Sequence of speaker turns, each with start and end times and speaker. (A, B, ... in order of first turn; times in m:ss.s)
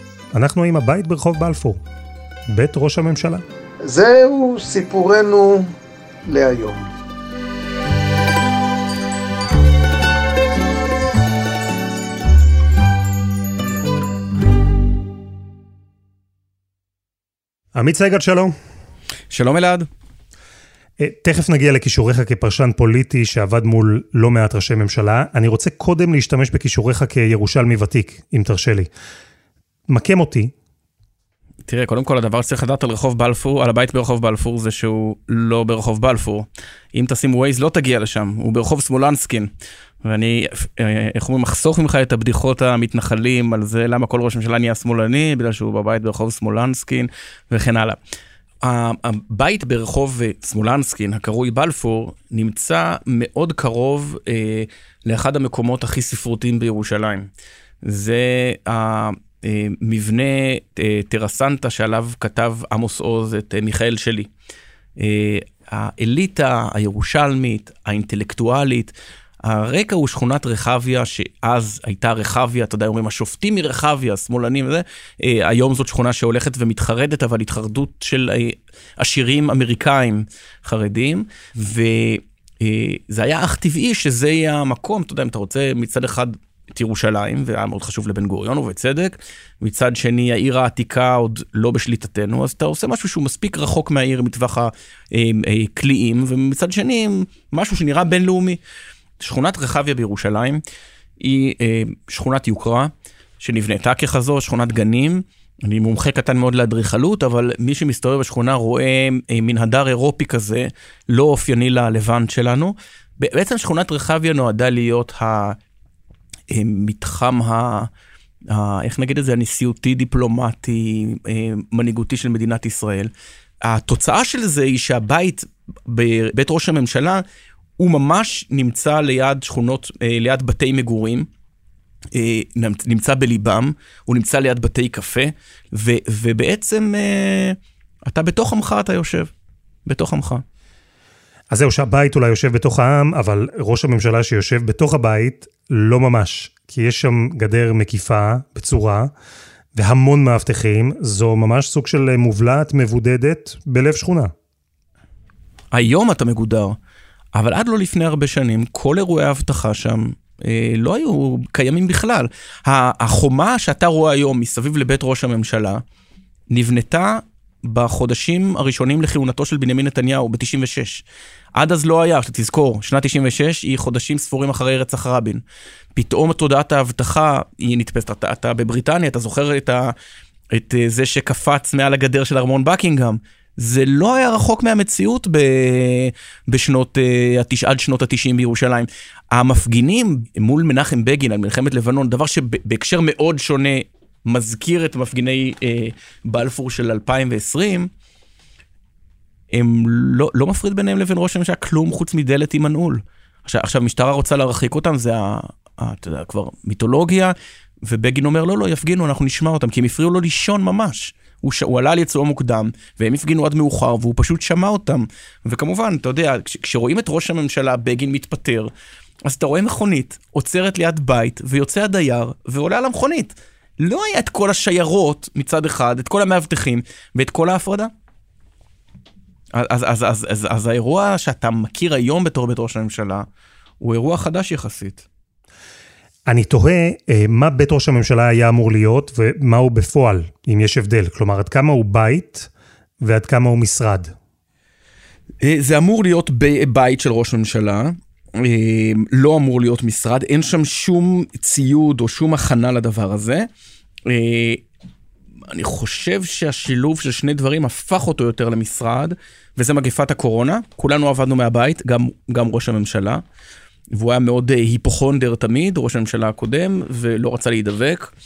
0:00.3-0:01.8 A
0:02.5-0:03.4 A
0:03.8-0:05.7 B
0:06.3-0:06.9 B
0:17.7-0:18.5 A
0:19.3-0:19.9 C
0:21.0-0:28.9 A
0:29.9-0:30.5 A
0:31.7-0:39.5 C
0:40.0-0:48.0 C
0:48.6-0:57.3 C
0:57.8-1:04.3 C
1:05.0-1:38.6 C
1:39.2-1:40.6 C
1:41.2-1:55.6 C
1:56.5-1:57.9 C
1:58.5-2:03.1 C
2:03.6-2:07.2 C
2:07.8-2:11.3 C
2:12.1-2:19.3 C
2:19.8-2:20.4 C
2:21.5-2:29.1 A
2:29.7-2:34.3 A
2:35.7-2:36.8 C
2:37.3-2:45.8 C
2:46.5-2:51.0 C
2:51.6-2:55.4 C
2:55.9-2:59.9 C
3:00.5-3:17.9 C
3:19.5-3:38.7 C
3:39.2-3:47.9 C
3:49.5-3:53.2 C
3:53.8-3:55.0 C
3:56.2-4:02.5 A
4:03.0-4:04.1 A
4:05.4-4:13.5 C
4:14.0-4:14.6 C
4:15.5-4:23.2 C
4:23.9-4:28.1 C